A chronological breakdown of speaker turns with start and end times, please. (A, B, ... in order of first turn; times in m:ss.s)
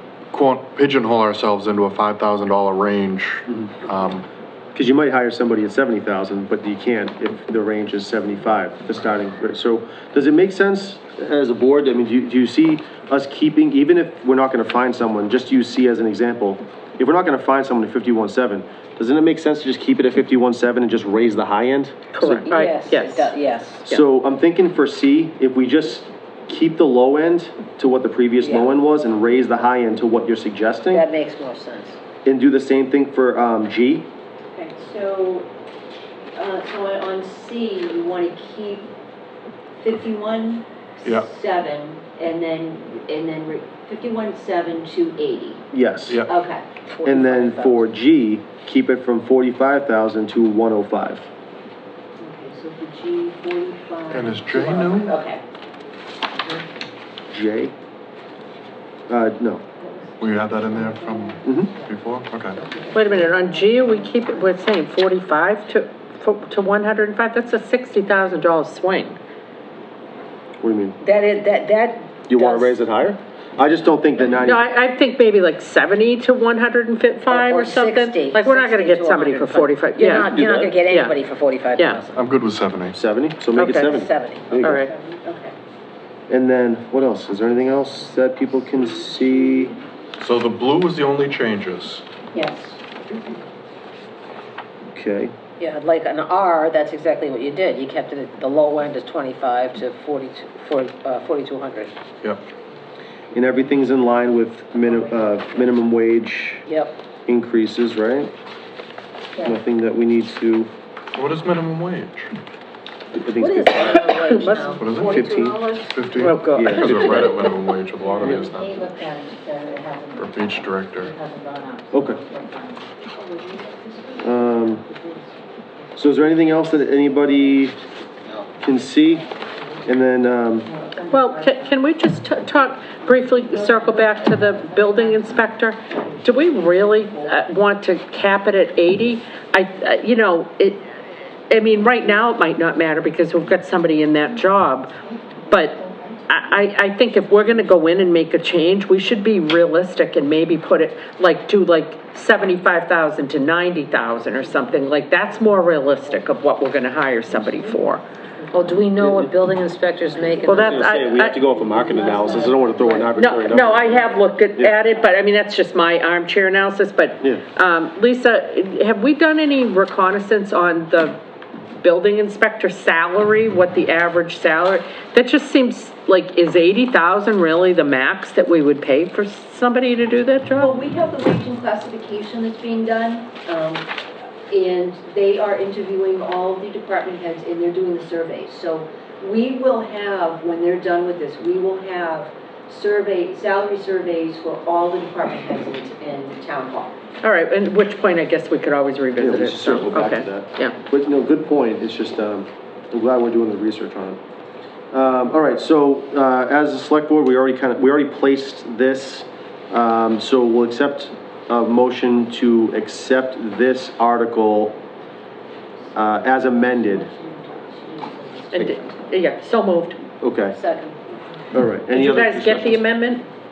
0:00.3-0:04.3 A
0:04.8-0:22.0 B
0:22.1-0:23.3 C
0:22.5-0:23.8 D
0:23.8-0:31.0 B
0:28.4-0:28.7 D
0:30.9-0:32.0 D
0:32.2-0:34.1 B
0:34.5-0:35.5 E
0:36.4-0:38.9 E
0:39.8-0:45.7 E
0:45.7-0:46.2 B
0:46.2-0:46.6 E
0:46.9-0:47.9 D
0:47.0-0:51.3 B
0:52.2-0:55.4 E
0:54.1-0:55.1 A
0:57.3-0:57.7 B
0:59.1-0:59.6 B
1:00.2-1:02.6 A
1:00.7-1:01.1 F
1:01.4-1:01.7 B
1:02.6-1:02.9 E
1:02.9-1:09.2 C
1:10.6-1:11.0 B
1:11.0-1:12.8 D
1:12.3-1:14.7 B
1:14.3-1:20.4 C
1:17.3-1:22.2 D
1:20.3-1:20.8 B
1:20.9-1:21.2 C
1:21.8-1:22.0 C
1:22.2-1:23.0 A
1:23.0-1:24.8 B
1:23.6-1:23.9 C
1:23.8-1:24.6 D
1:24.6-1:25.6 E
1:24.6-1:24.9 C
1:26.3-1:29.8 B
1:28.8-1:29.7 E
1:30.2-1:32.0 A
1:32.3-1:32.8 E
1:34.9-1:35.3 B
1:35.6-1:42.0 D
1:43.3-1:46.6 B
1:46.7-1:47.0 D
1:47.3-1:48.3 B
1:49.4-1:50.7 B
1:51.1-1:52.3 A
1:53.1-1:54.1 B
1:53.4-1:55.9 D
1:53.9-1:54.7 C
1:54.6-1:55.2 A
1:55.0-1:55.6 B
1:55.9-1:58.9 A
1:56.2-1:57.4 C
1:56.5-1:57.3 B
1:58.0-2:02.8 F
2:00.2-2:01.1 A
2:01.9-2:02.2 B
2:03.1-2:05.3 E
2:04.2-2:04.8 B
2:06.0-2:07.8 B
2:08.6-2:09.3 B
2:09.9-2:10.7 B
2:11.1-2:20.9 C
2:21.5-2:24.9 C
2:25.5-2:25.8 C
2:26.3-2:38.0 C
2:38.5-2:41.2 D
2:39.0-2:39.3 B
2:40.4-2:41.4 C
2:40.5-2:44.8 B
2:42.0-2:42.6 E
2:42.8-2:43.1 D
2:43.2-2:51.2 C
2:51.8-3:00.8 C
3:00.6-3:03.9 E
3:04.5-3:17.0 E
3:17.2-3:20.8 C
3:19.2-3:24.2 B
3:24.9-3:34.8 B
3:35.8-3:39.2 E
3:36.0-3:37.1 B
3:38.5-3:40.0 C
3:40.2-3:40.6 B
3:40.6-3:41.0 D
3:41.5-3:42.9 B
3:41.9-3:43.2 C